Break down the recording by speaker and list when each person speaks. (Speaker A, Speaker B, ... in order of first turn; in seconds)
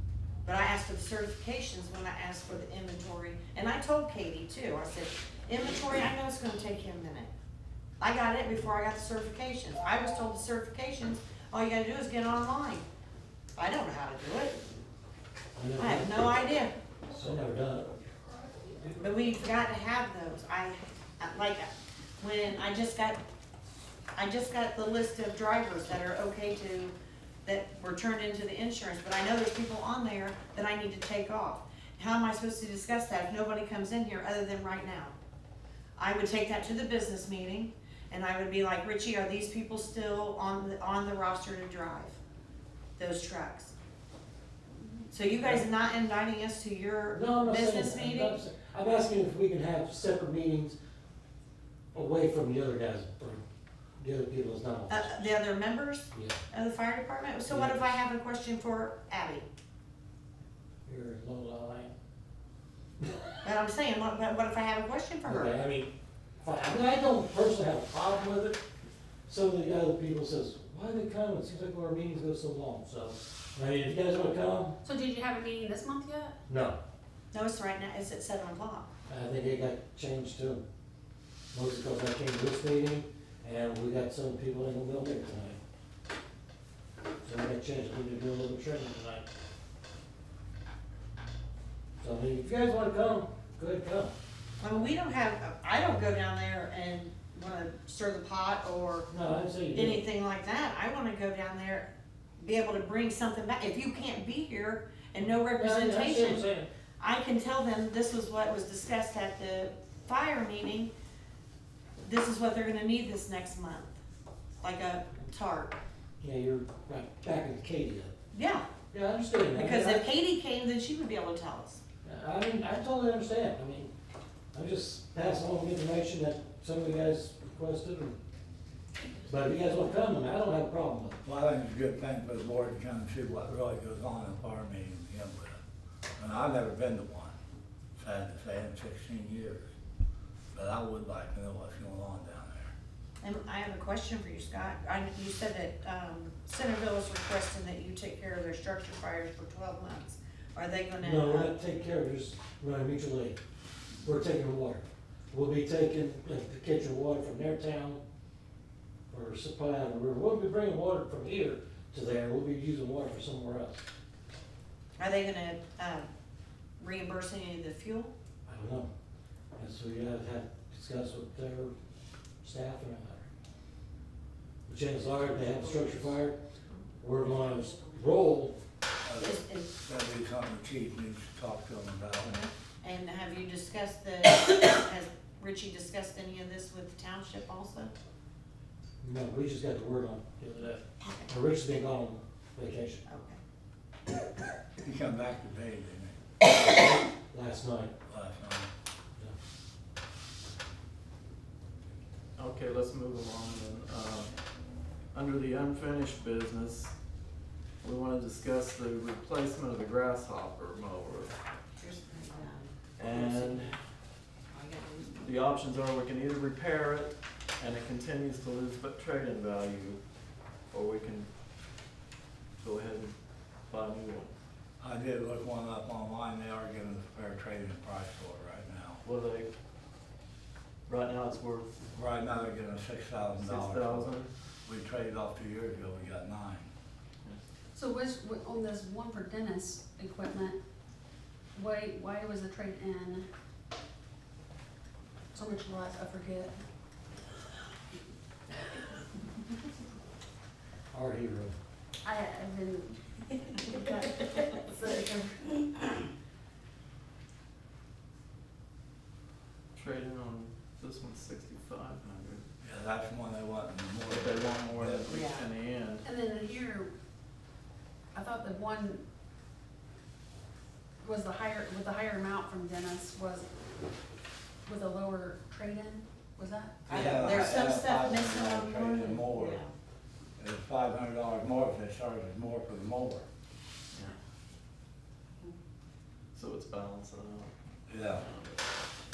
Speaker A: 0.4-7.3, 8.0-12.8, 13.6-14.6, 15.8-16.7, 18.9-21.7, 22.2-23.2, 24.1-26.9, 27.4-35.1, 36.0-42.2, 43.0-43.7, 45.1-48.4, 54.9-59.5, 63.4-65.5, 77.3-78.9, 94.6-99.1, 99.7-106.5, 107.0-110.9, 112.0-114.0, 114.6-115.8, 118.3-118.7, 119.5-121.8, 143.2-151.5, 165.0-166.1, 166.8-168.1, 175.1-176.1, 176.7-178.0, 179.2-179.7, 182.3-187.9, 191.0-191.3, 193.1-193.4, 211.7-213.8, 214.5-215.3, 265.1-265.5, 276.9-279.7
Speaker B: 15.6-16.1, 17.1-18.1, 47.1-50.8, 51.9-53.4, 54.0-55.1, 57.5-57.9, 60.9-61.9, 63.0-63.4, 65.2-68.6, 69.3-74.8, 76.5-76.8, 79.1-80.6, 81.5-85.6, 87.2-89.2, 92.0-94.1, 99.1-100.0, 105.4-106.7, 116.2-118.1, 118.9-120.0, 122.0-123.9, 124.5-128.2, 129.2-131.2, 151.0-153.4, 154.0-158.0, 159.1-163.8, 168.4-168.9, 169.6-171.7, 172.4-173.2, 174.7-176.4, 177.0-178.6, 189.0-193.0, 196.4-197.9, 250.9-251.6
Speaker C: 74.8-76.3, 237.7-240.6, 241.5-243.2, 245.3-246.6, 252.0-255.8, 266.0-266.9, 268.1-269.0, 271.0-273.5, 274.6-279.0
Speaker D: 131.2-135.6, 136.2-137.3, 138.0-139.7, 140.5-142.7, 179.0-182.4, 194.8-196.2, 198.1-198.7, 224.8-229.0, 231.9-236.7, 262.6-265.1, 276.9-279.6, 280.4-283.2, 287.9-288.2
Speaker E: 202.4-204.3, 205.1-206.9, 207.8-211.3, 213.0-213.7, 215.1-220.0, 220.7-221.3, 222.6-223.2, 223.7-224.3, 229.0-229.5, 230.9-231.7, 233.3-234.3, 259.7-262.4, 264.1-266.1, 286.3-287.5, 288.1-288.6